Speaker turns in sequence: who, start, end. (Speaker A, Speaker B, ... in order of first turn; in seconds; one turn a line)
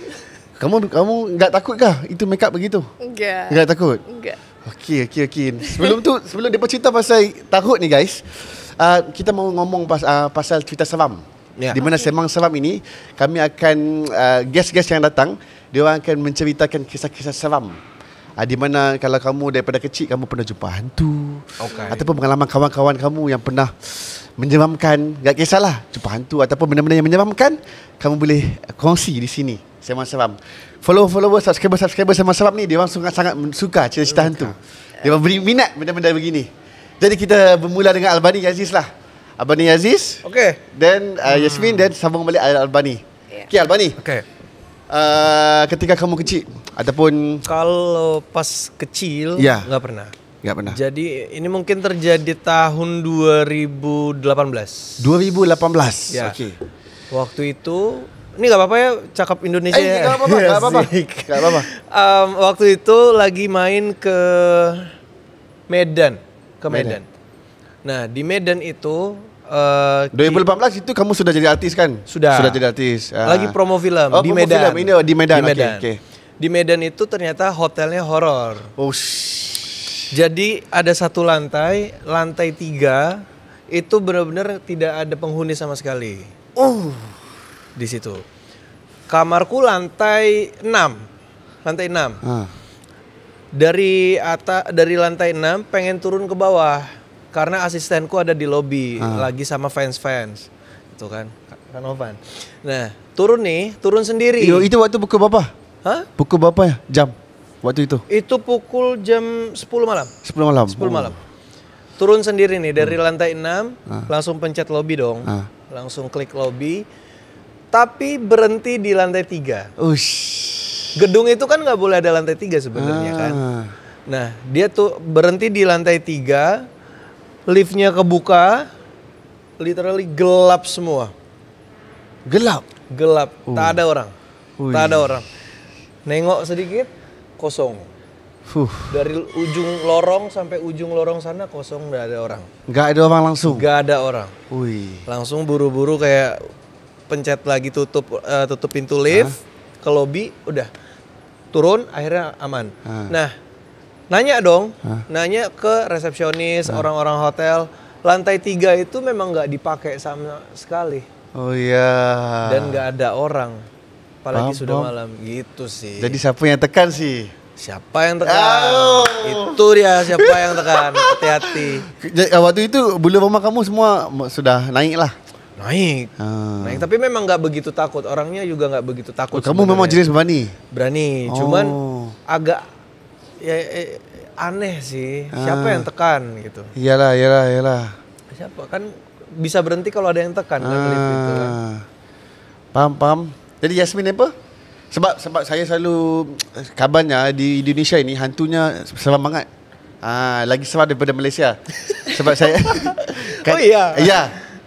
Speaker A: 0.6-2.9
Speaker B: 3.0-4.4
Speaker A: 3.5-4.0
Speaker A: 4.6-17.8
Speaker B: 5.7-5.9
Speaker C: 11.6-11.8
Speaker B: 11.8-12.1
Speaker A: 18.4-36.5
Speaker C: 21.6-22.0
Speaker B: 21.7-22.2
Speaker C: 34.1-34.5
Speaker A: 37.0-38.9
Speaker A: 39.4-44.0
Speaker C: 40.2-40.6
Speaker C: 41.2-41.9
Speaker C: 44.0-44.2
Speaker A: 44.9-47.4
Speaker C: 47.5-50.1
Speaker A: 49.4-49.7
Speaker A: 50.4-50.8
Speaker C: 50.6-55.1
Speaker A: 55.0-56.5
Speaker C: 56.1-56.4
Speaker C: 57.1-64.9
Speaker A: 59.7-61.7
Speaker C: 65.7-67.0
Speaker A: 66.7-67.0
Speaker C: 67.8-70.4
Speaker A: 70.1-73.6
Speaker C: 72.1-72.6
Speaker C: 73.2-75.9
Speaker A: 74.1-76.0
Speaker C: 76.4-78.7
Speaker A: 78.8-80.1
Speaker C: 80.1-86.3
Speaker A: 86.6-87.2
Speaker C: 87.8-88.2
Speaker C: 89.1-91.0
Speaker C: 91.6-92.2
Speaker A: 92.2-92.5
Speaker C: 93.5-104.7
Speaker A: 99.0-99.3
Speaker A: 104.4-105.5
Speaker A: 106.2-108.0
Speaker C: 108.1-110.1
Speaker A: 110.2-111.1
Speaker C: 110.7-111.1
Speaker C: 112.0-116.8
Speaker C: 117.7-119.7
Speaker A: 119.8-121.0
Speaker C: 120.9-123.4
Speaker A: 122.7-123.7
Speaker C: 124.1-126.7
Speaker C: 127.5-128.7
Speaker C: 129.6-131.1
Speaker A: 132.3-132.6
Speaker C: 132.9-134.1
Speaker A: 133.5-133.8
Speaker A: 134.6-135.2
Speaker C: 134.7-135.3
Speaker C: 136.1-137.8
Speaker A: 138.5-139.0
Speaker C: 138.9-142.5
Speaker A: 142.7-143.7
Speaker C: 143.4-144.3
Speaker A: 144.5-145.0
Speaker C: 145.1-146.4
Speaker C: 147.1-150.7
Speaker A: 149.1-149.3
Speaker C: 151.5-153.3
Speaker A: 152.8-153.2
Speaker C: 154.1-161.0
Speaker A: 161.3-162.8
Speaker C: 162.4-163.6
Speaker C: 164.2-166.2
Speaker A: 164.3-164.9
Speaker A: 166.0-167.3
Speaker C: 167.6-171.9
Speaker A: 168.2-175.1
Speaker C: 175.6-180.0
Speaker A: 176.2-176.9
Speaker A: 179.3-180.5
Speaker C: 180.7-181.8
Speaker A: 181.3-182.2
Speaker C: 182.3-182.6
Speaker C: 183.4-186.7
Speaker A: 185.3-185.9
Speaker A: 186.7-187.9
Speaker C: 188.3-191.6
Speaker A: 190.6-191.8
Speaker A: 192.7-194.3
Speaker A: 194.9-199.5
Speaker A: 200.0-204.3
Speaker C: 201.8-204.4